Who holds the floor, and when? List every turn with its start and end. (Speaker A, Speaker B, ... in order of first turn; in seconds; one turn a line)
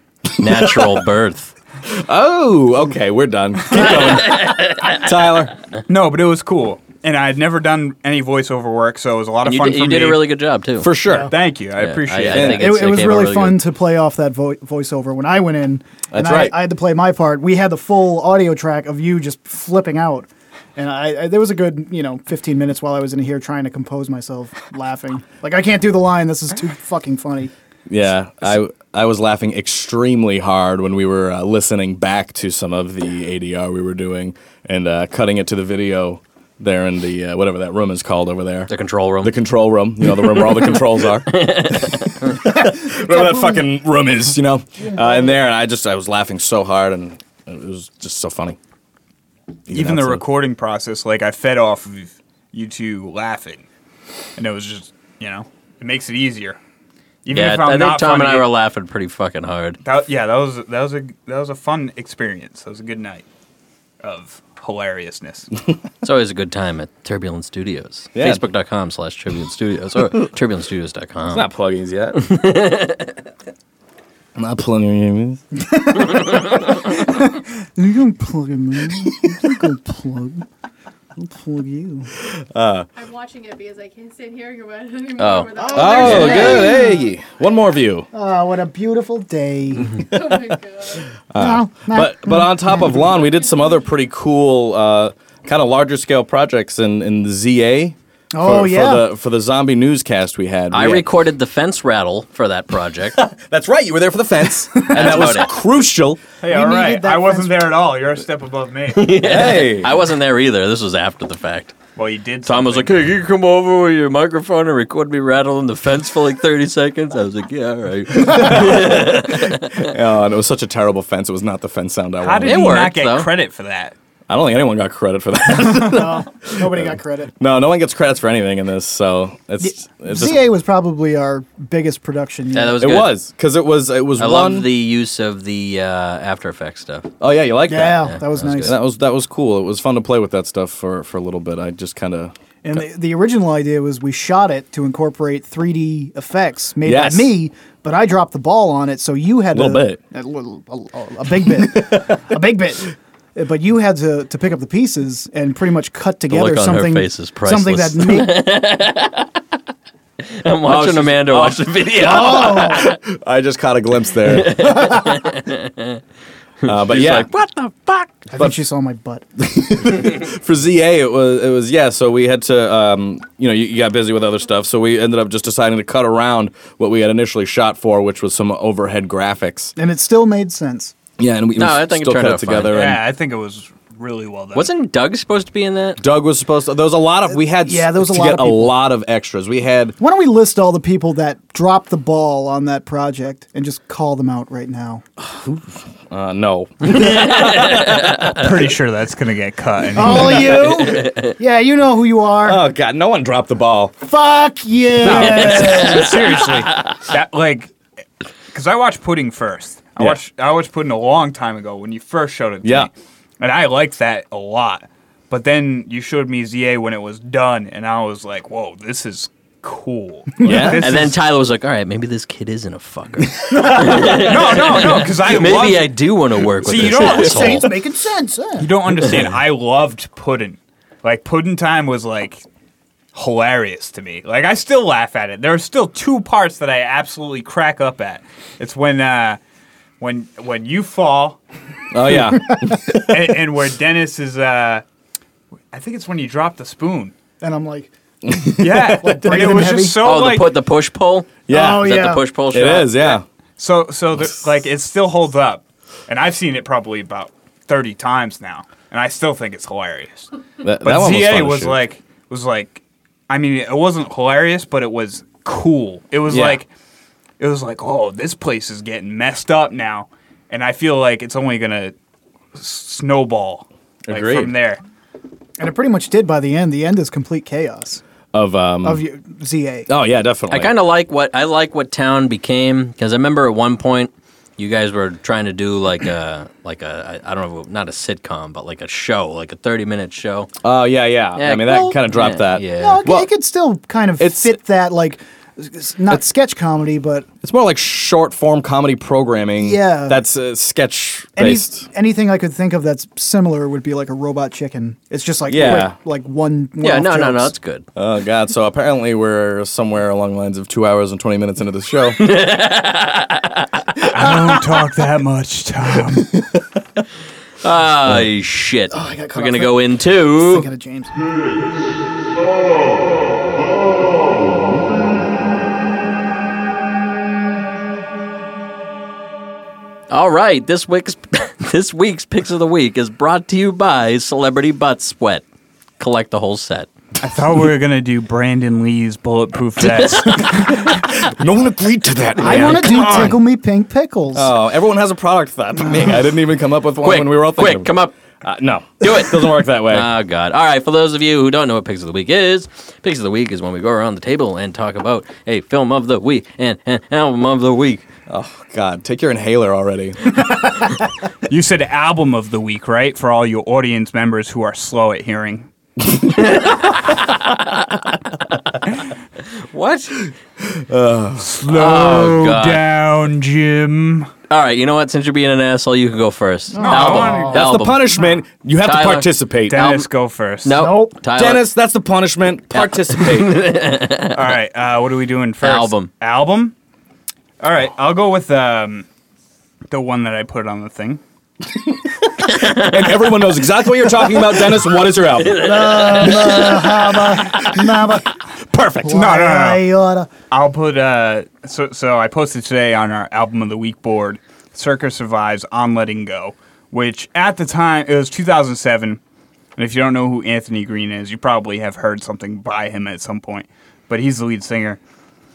Speaker A: 0.4-1.5
Speaker B: 0.6-0.9
Speaker B: 1.8-5.5
Speaker A: 3.8-5.0
Speaker C: 5.9-10.2
Speaker A: 9.4-10.9
Speaker B: 10.8-11.3
Speaker D: 11.1-11.3
Speaker C: 11.1-12.6
Speaker A: 11.8-13.6
Speaker B: 12.3-12.7
Speaker D: 12.4-27.5
Speaker B: 16.1-16.6
Speaker B: 27.9-38.7
Speaker A: 38.7-39.4
Speaker B: 39.2-48.6
Speaker A: 40.2-40.7
Speaker A: 41.2-42.4
Speaker D: 42.4-43.6
Speaker D: 44.8-45.3
Speaker B: 49.7-50.2
Speaker C: 49.7-53.6
Speaker C: 54.4-56.6
Speaker C: 57.2-58.5
Speaker A: 57.3-59.8
Speaker C: 59.8-63.2
Speaker C: 64.0-65.5
Speaker A: 66.0-71.5
Speaker B: 68.1-68.4
Speaker B: 71.3-72.3
Speaker A: 72.2-73.1
Speaker B: 74.3-75.4
Speaker D: 75.7-80.4
Speaker B: 79.0-79.5
Speaker D: 81.2-82.1
Speaker B: 82.2-82.9
Speaker E: 82.9-87.3
Speaker A: 85.2-86.6
Speaker D: 85.5-87.1
Speaker B: 85.7-88.1
Speaker D: 88.1-90.1
Speaker E: 89.9-91.1
Speaker B: 90.1-90.4
Speaker B: 91.3-101.1
Speaker D: 91.4-93.1
Speaker D: 98.3-99.0
Speaker A: 100.7-103.2
Speaker B: 103.1-106.2
Speaker A: 104.9-105.5
Speaker C: 106.4-109.1
Speaker D: 106.5-107.7
Speaker A: 108.9-111.7
Speaker B: 109.2-110.0
Speaker C: 112.0-113.1
Speaker A: 112.4-119.9
Speaker B: 118.2-122.6
Speaker C: 122.2-123.9
Speaker A: 122.4-123.3
Speaker B: 124.3-130.4
Speaker D: 125.8-127.3
Speaker D: 129.6-132.9
Speaker A: 132.5-133.1
Speaker B: 132.8-134.7
Speaker A: 134.2-137.1
Speaker B: 137.2-142.3
Speaker D: 137.7-138.8
Speaker A: 138.0-138.7
Speaker D: 142.6-158.4
Speaker B: 146.8-147.3
Speaker B: 149.5-150.0
Speaker B: 151.4-152.2
Speaker A: 156.3-159.4
Speaker A: 160.2-162.9
Speaker B: 160.7-165.0
Speaker D: 162.0-162.9
Speaker A: 164.3-166.0
Speaker A: 166.6-168.1
Speaker B: 166.6-167.3
Speaker D: 168.3-169.2
Speaker B: 169.4-179.7
Speaker D: 179.8-180.9
Speaker B: 181.2-183.0
Speaker A: 181.6-182.8
Speaker C: 182.7-184.7
Speaker A: 184.5-186.0
Speaker B: 186.0-189.9
Speaker D: 187.5-188.7
Speaker D: 190.0-195.0
Speaker B: 195.2-198.5
Speaker A: 196.9-198.4
Speaker C: 198.2-200.7
Speaker D: 199.9-202.6
Speaker A: 200.3-201.3
Speaker B: 202.4-203.9
Speaker D: 204.0-206.4
Speaker C: 205.0-207.7
Speaker B: 205.0-205.9
Speaker A: 205.1-206.9
Speaker C: 208.5-221.2
Speaker B: 212.6-212.9
Speaker B: 220.4-220.9
Speaker A: 220.6-227.7
Speaker D: 223.5-224.3
Speaker C: 223.9-225.9
Speaker C: 226.6-227.7
Speaker D: 226.8-228.7
Speaker C: 228.6-232.4
Speaker C: 233.1-239.4
Speaker C: 240.0-241.4
Speaker B: 241.9-243.4
Speaker C: 242.9-244.8
Speaker C: 245.7-247.1
Speaker D: 247.4-247.9
Speaker B: 248.2-249.5
Speaker C: 248.6-250.5
Speaker D: 249.0-250.0
Speaker A: 250.0-253.0
Speaker B: 251.5-252.0
Speaker D: 251.5-252.2
Speaker B: 252.5-253.2
Speaker C: 253.6-260.3
Speaker B: 260.6-261.8
Speaker C: 260.8-266.7
Speaker B: 266.3-266.6
Speaker C: 267.4-271.9
Speaker C: 272.5-274.8
Speaker B: 274.1-274.5
Speaker D: 275.6-278.0
Speaker B: 278.3-279.0
Speaker D: 278.8-279.9
Speaker B: 279.9-280.7
Speaker A: 280.5-290.5
Speaker B: 290.6-293.3
Speaker A: 291.4-293.1
Speaker D: 292.7-297.3
Speaker B: 294.2-294.6
Speaker B: 297.4-301.8
Speaker D: 299.6-300.2
Speaker D: 301.4-307.5
Speaker B: 305.5-305.9
Speaker A: 306.8-307.9
Speaker B: 307.9-312.2
Speaker A: 312.2-313.7
Speaker C: 314.1-316.4
Speaker A: 317.6-320.7
Speaker D: 318.9-321.1
Speaker A: 330.1-335.4
Speaker A: 336.0-336.9
Speaker C: 337.2-340.9
Speaker B: 340.7-343.4
Speaker D: 342.4-344.5
Speaker B: 344.3-350.1
Speaker A: 347.0-348.1
Speaker A: 349.0-358.0
Speaker B: 358.3-360.4
Speaker C: 361.5-365.7
Speaker A: 366.4-367.8
Speaker A: 369.7-370.2
Speaker B: 370.6-371.5
Speaker C: 371.4-374.3
Speaker A: 371.7-372.8
Speaker A: 374.5-378.2
Speaker D: 376.7-377.7
Speaker C: 376.8-377.6
Speaker B: 377.2-379.9
Speaker A: 378.8-380.0
Speaker C: 379.7-380.8
Speaker A: 380.6-381.6
Speaker D: 380.7-381.2
Speaker B: 381.3-383.6
Speaker A: 382.7-384.4
Speaker C: 384.3-386.7
Speaker A: 385.6-386.1
Speaker C: 387.6-389.1
Speaker C: 389.9-391.2
Speaker B: 392.4-396.6
Speaker A: 392.6-392.9
Speaker A: 395.4-397.1
Speaker D: 395.5-398.3
Speaker B: 398.7-399.1
Speaker D: 399.0-400.3
Speaker C: 399.0-399.9
Speaker C: 400.5-409.2
Speaker C: 409.8-415.0